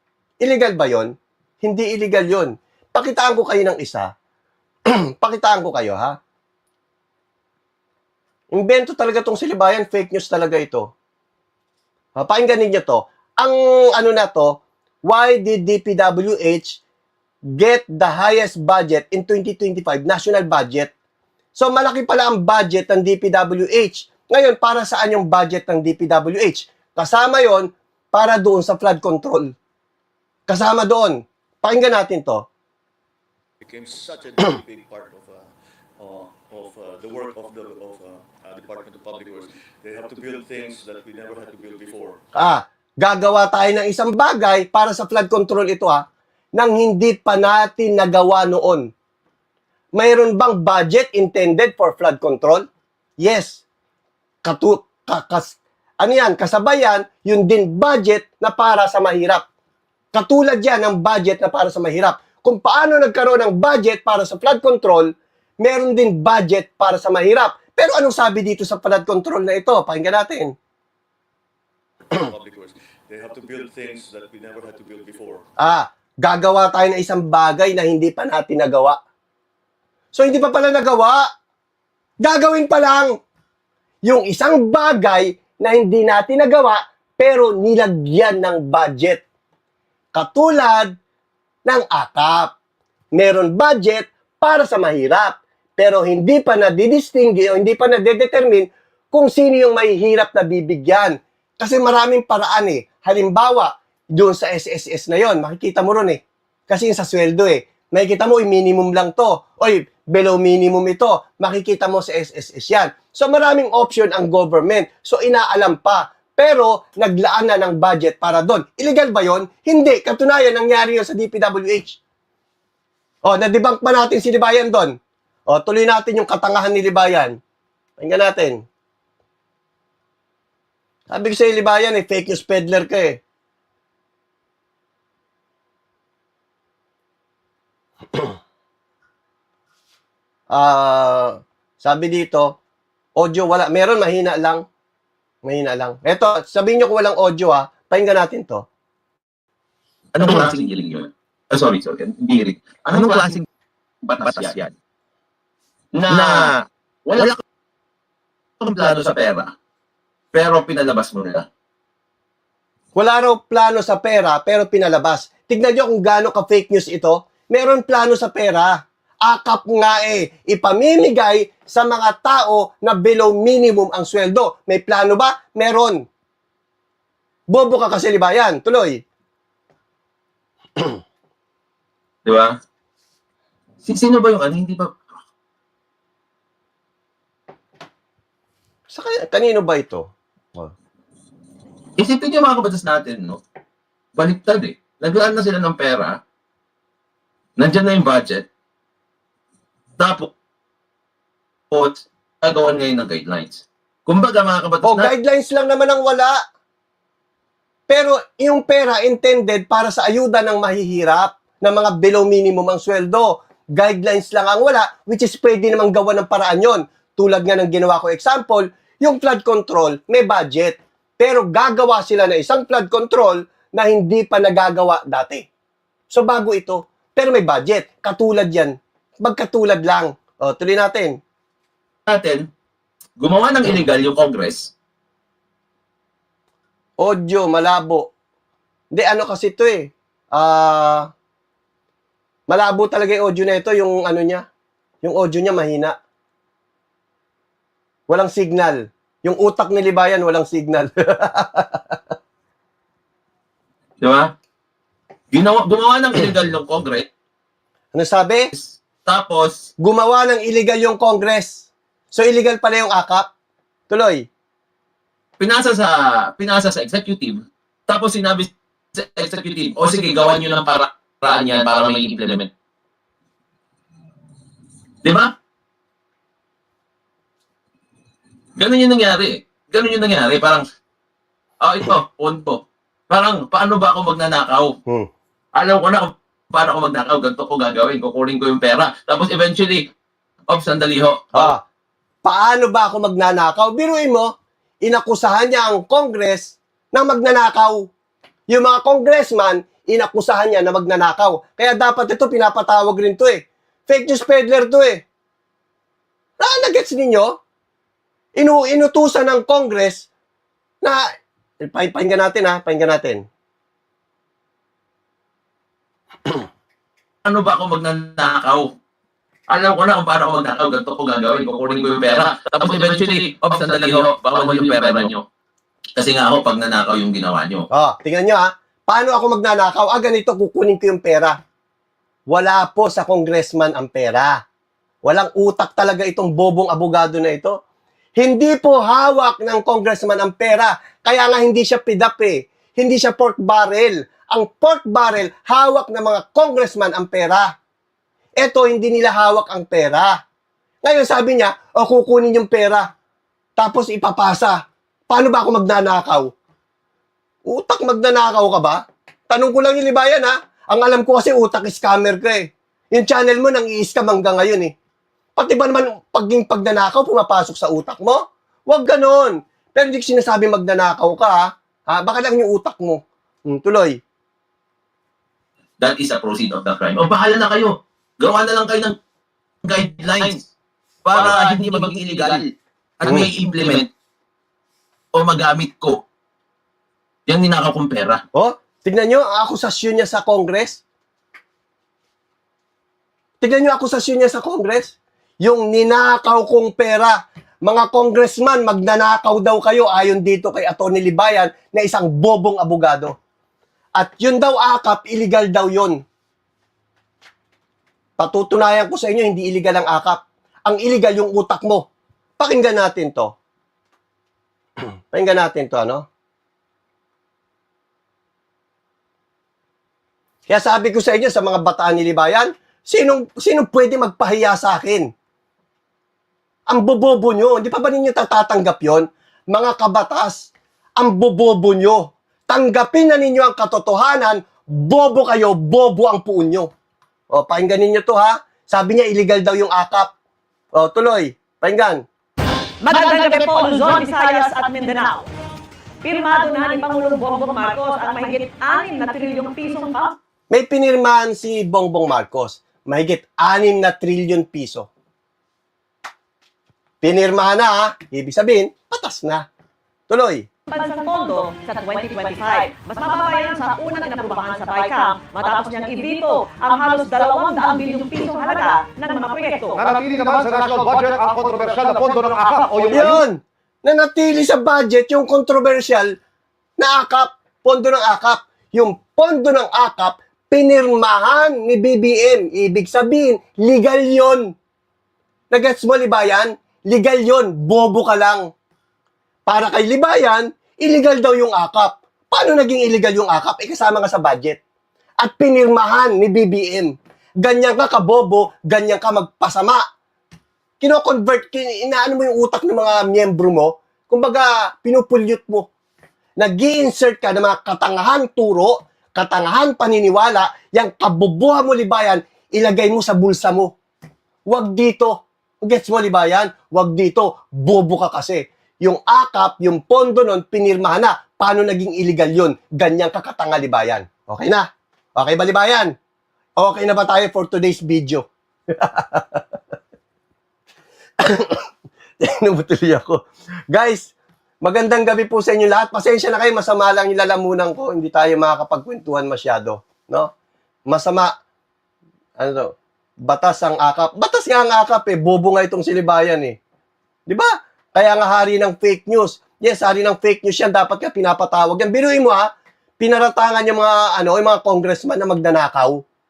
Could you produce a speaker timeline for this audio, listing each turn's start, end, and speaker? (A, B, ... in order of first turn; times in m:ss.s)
0:00.4-0:04.1 A
0:05.2-0:06.2 A
0:08.5-0:10.9 A
0:12.2-0:16.8 A
0:17.6-0:20.9 A
0:21.6-0:29.5 A
0:30.5-0:32.4 A
0:33.6-0:42.2 B
0:42.4-0:46.0 A
0:46.6-0:48.9 A
0:50.0-0:52.6 A
0:53.2-0:53.6 A
0:54.4-0:59.4 A
1:00.1-1:10.5 A
1:12.1-1:15.5 B
1:15.6-1:19.0 A
1:20.1-1:21.2 A
1:22.2-1:23.1 A
1:24.1-1:29.2 A
1:30.2-1:31.0 A
1:31.7-1:32.5 A
1:33.1-2:02.0 A
2:03.2-2:04.9 A
2:05.5-2:07.4 A
2:08.0-2:08.6 A
2:11.1-2:13.2 A
2:20.5-2:22.6 A
2:23.2-2:24.6 A
2:25.4-2:28.6 A
2:30.1-2:33.4 C
2:32.9-2:33.3 A
2:34.0-2:34.7 C
2:36.0-2:36.5 A
2:36.0-2:37.4 C
2:38.6-2:39.5 C
2:40.3-2:41.5 C
2:43.0-2:56.0 A
2:57.5-2:59.0 A
3:02.2-3:02.6 C
3:03.8-3:05.0 C
3:08.9-3:10.7 A
3:12.0-3:13.4 C
3:14.2-3:16.2 C
3:17.6-3:18.5 C
3:20.0-3:20.3 C
3:21.7-3:25.1 C
3:24.8-3:26.4 A
3:27.9-3:45.4 A
3:46.1-3:51.2 A
3:52.1-3:52.5 C
3:53.2-3:54.7 C
3:57.0-3:58.1 A
3:58.9-4:01.1 A
4:02.5-4:04.4 A
4:05.0-4:06.0 A
4:08.1-4:12.0 A
4:14.0-4:14.3 C
4:15.3-4:17.1 C
4:17.9-4:18.5 A
4:18.5-4:19.7 C
4:19.8-4:23.3 A
4:23.9-4:24.2 A
4:25.4-4:32.5 C
4:35.0-4:35.3 C
4:38.6-4:40.6 C
4:41.6-4:44.8 C
4:45.6-4:49.9 C
4:50.5-4:51.6 C
4:51.4-4:51.6 A
4:52.2-4:54.3 A
4:54.8-4:57.9 A
4:58.5-5:05.0 A
5:06.4-5:07.4 A
5:08.4-5:10.1 A
5:11.6-5:13.2 A
5:17.2-5:18.7 C
5:19.5-5:25.2 C
5:26.0-5:27.7 C
5:27.7-5:31.4 A
5:32.3-5:34.4 A
5:35.0-5:37.6 A
5:38.2-5:47.5 A
5:48.4-5:50.2 A
5:50.8-5:52.9 A
5:53.6-5:56.3 A
5:57.5-6:04.7 A
6:05.4-6:14.0 A
6:15.8-6:19.0 C
6:19.6-6:20.4 C
6:21.0-6:22.5 C
6:23.0-6:23.9 C
6:23.0-6:23.3 A
6:25.1-6:26.0 C
6:27.3-6:28.2 C
6:28.4-6:30.8 A
6:33.4-6:43.2 A
6:44.0-6:46.0 A
6:48.2-6:51.9 A
6:52.4-6:53.3 A
6:55.1-6:56.0 A
7:00.5-7:05.1 A
7:06.7-7:16.7 A
7:17.3-7:20.1 A
7:20.8-7:22.0 A
7:22.8-7:25.2 D
7:26.0-7:30.2 D
7:30.5-7:34.9 A
7:37.0-7:39.4 A
7:40.1-7:40.4 A
7:40.7-7:49.9 D
7:49.8-7:53.2 E
7:52.9-7:56.2 A
7:56.8-8:04.5 A
8:05.5-8:08.5 A
8:09.5-8:14.6 A
8:15.2-8:19.8 A
8:20.8-8:25.7 A
8:26.4-8:33.7 A
8:34.5-8:45.9 A
8:46.6-8:49.4 A
8:51.2-8:51.6 A
8:52.2-9:00.3 A
9:00.9-9:01.3 A
9:02.4-9:02.7 A
9:03.2-9:06.6 A
9:07.3-9:12.5 A
9:13.0-9:16.0 A